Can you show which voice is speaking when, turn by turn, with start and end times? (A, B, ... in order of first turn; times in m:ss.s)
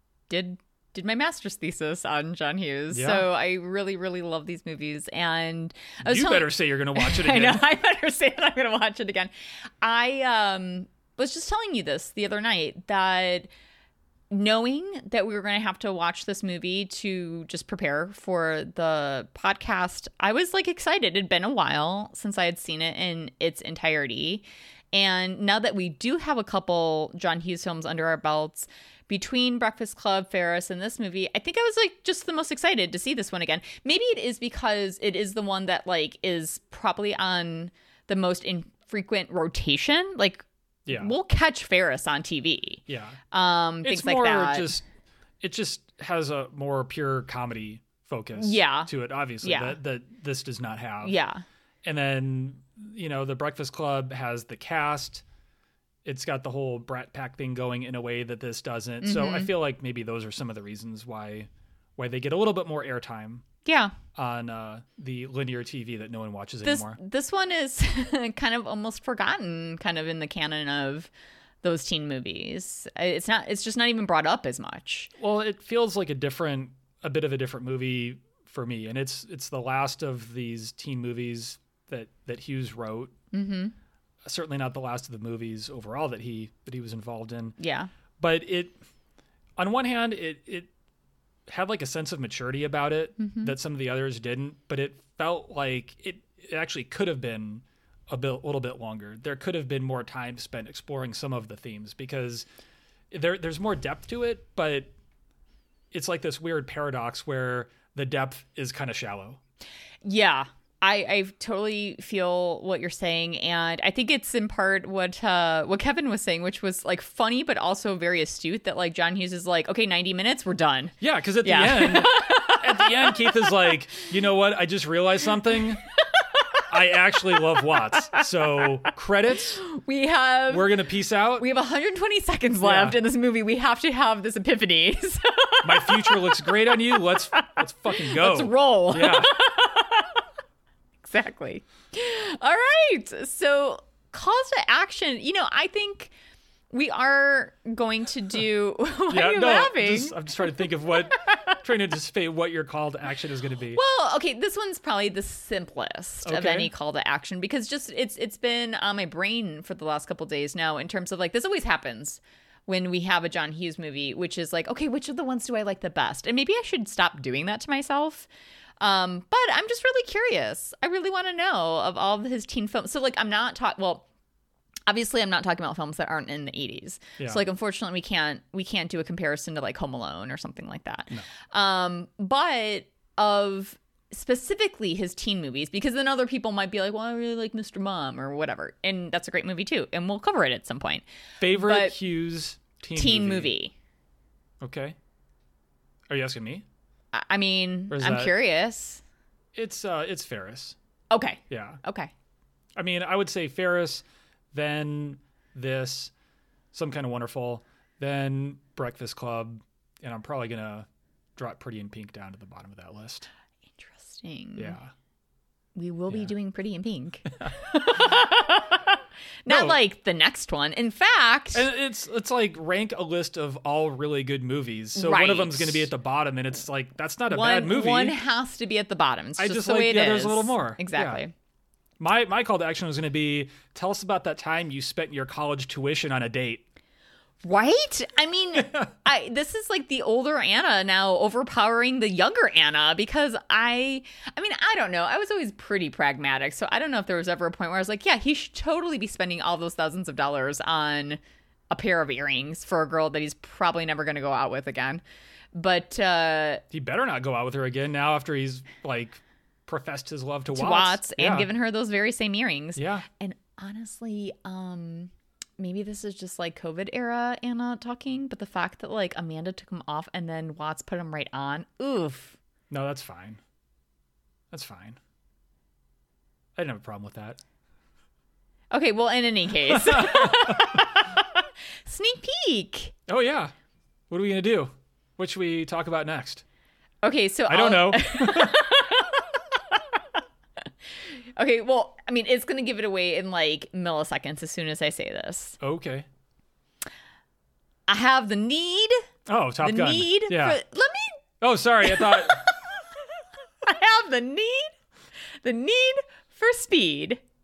0:00.3-0:13.5 A
0:02.9-0:03.3 B
0:06.0-0:07.6 B
0:14.3-0:44.8 A
0:40.9-0:41.1 B
0:42.9-0:43.2 B
0:43.8-0:44.8 B
0:45.4-0:51.2 B
0:48.4-0:48.9 A
0:49.4-0:49.8 A
0:51.0-0:51.4 A
0:51.8-0:55.2 B
0:56.0-1:03.4 B
0:59.0-0:59.5 A
1:03.6-1:03.9 A
1:04.2-1:07.0 B
1:06.6-1:11.1 A
1:11.6-1:15.1 A
1:15.2-1:23.1 B
1:23.3-1:23.7 A
1:24.2-1:27.6 B
1:27.6-1:27.9 A
1:28.2-1:28.8 B
1:29.6-1:30.7 B
1:31.5-1:42.5 B
1:33.2-1:33.6 A
1:43.1-1:44.9 B
1:45.9-1:49.4 B
1:50.0-2:03.3 A
2:01.0-2:05.8 B
2:06.1-2:06.6 A
2:06.7-2:09.6 B
2:09.6-2:10.7 A
2:10.5-2:11.5 B
2:11.4-2:16.2 A
2:12.6-2:13.0 B
2:15.6-2:19.3 B
2:17.4-2:20.2 A
2:21.0-2:26.1 A
2:26.7-2:30.2 A
2:29.1-2:33.8 B
2:33.7-2:48.3 A
2:36.2-2:36.7 B
2:48.8-2:54.0 A
2:54.9-3:12.0 A
2:57.2-2:57.4 B
3:11.4-3:13.5 B
3:13.0-3:13.7 A
3:14.6-3:15.0 B
3:16.1-3:16.6 B
3:17.1-3:19.0 A
3:17.9-3:18.3 B
3:19.5-3:20.8 B
3:21.1-3:22.1 A
3:21.5-3:21.8 B
3:22.8-3:26.1 B
3:26.7-3:33.3 B
3:33.8-3:34.8 A
3:34.6-3:34.9 B
3:35.8-3:41.7 A
3:39.5-3:39.8 B
3:41.5-3:48.2 B
3:45.0-3:45.9 A
3:47.3-3:51.3 A
3:49.4-3:51.2 B
3:52.0-3:56.6 B
3:57.4-4:11.2 A
3:58.6-3:58.9 B
4:11.7-4:15.0 A
4:15.5-4:16.6 A
4:16.7-4:21.5 B
4:20.5-4:32.4 A
4:22.8-4:23.0 B
4:32.7-4:33.4 B
4:34.5-4:35.0 B
4:36.6-4:37.4 B
4:38.7-4:42.9 A
4:39.7-4:40.7 B
4:43.1-4:43.5 B
4:44.1-4:46.4 B
4:47.0-4:50.2 A
4:47.5-4:48.6 B
4:51.4-4:55.6 A
4:55.6-4:56.1 B
4:57.9-4:59.0 A
4:59.3-5:00.6 B
4:59.6-5:01.2 A
5:01.4-5:02.4 B
5:01.8-5:02.8 A
5:03.6-5:04.8 A
5:05.4-5:07.2 A